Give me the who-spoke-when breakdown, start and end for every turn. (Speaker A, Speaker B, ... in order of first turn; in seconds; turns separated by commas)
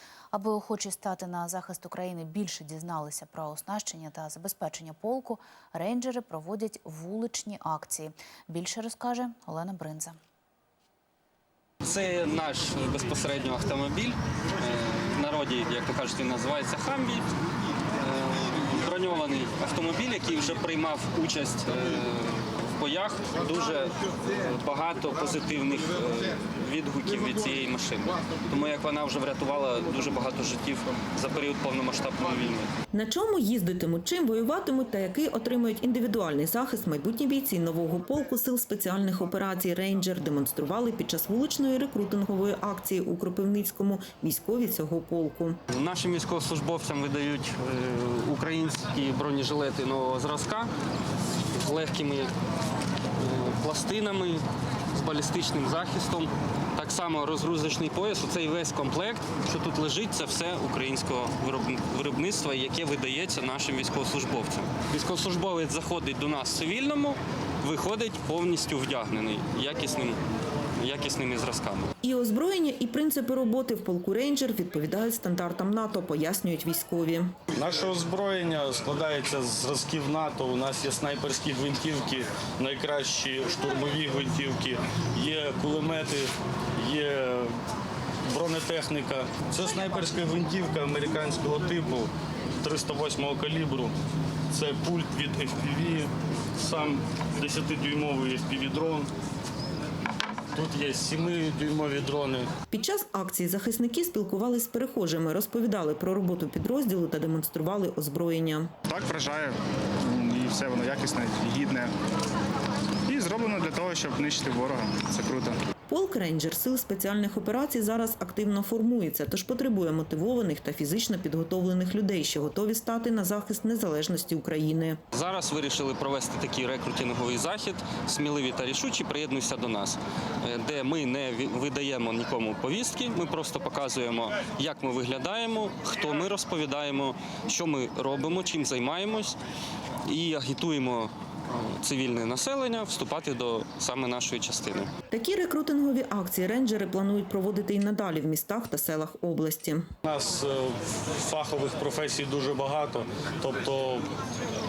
Speaker A: 0.3-10.2, Speaker B: 11.8-17.3, Speaker B: 18.0-32.7, Speaker C: 32.9-45.6, Speaker B: 45.7-50.7, Speaker B: 51.5-52.3, Speaker B: 53.2-70.2, Speaker B: 70.8-71.9, Speaker C: 72.0-77.4, Speaker D: 77.5-87.5, Speaker D: 88.2-92.1, Speaker D: 92.6-93.9, Speaker D: 94.5-99.1, Speaker D: 100.5-102.5, Speaker C: 102.7-108.7, Speaker E: 108.9-111.9, Speaker E: 113.1-115.6, Speaker C: 115.9-125.0, Speaker B: 125.1-139.4, Speaker B: 140.1-144.9, Speaker C: 145.1-149.9, Speaker D: 150.1-154.1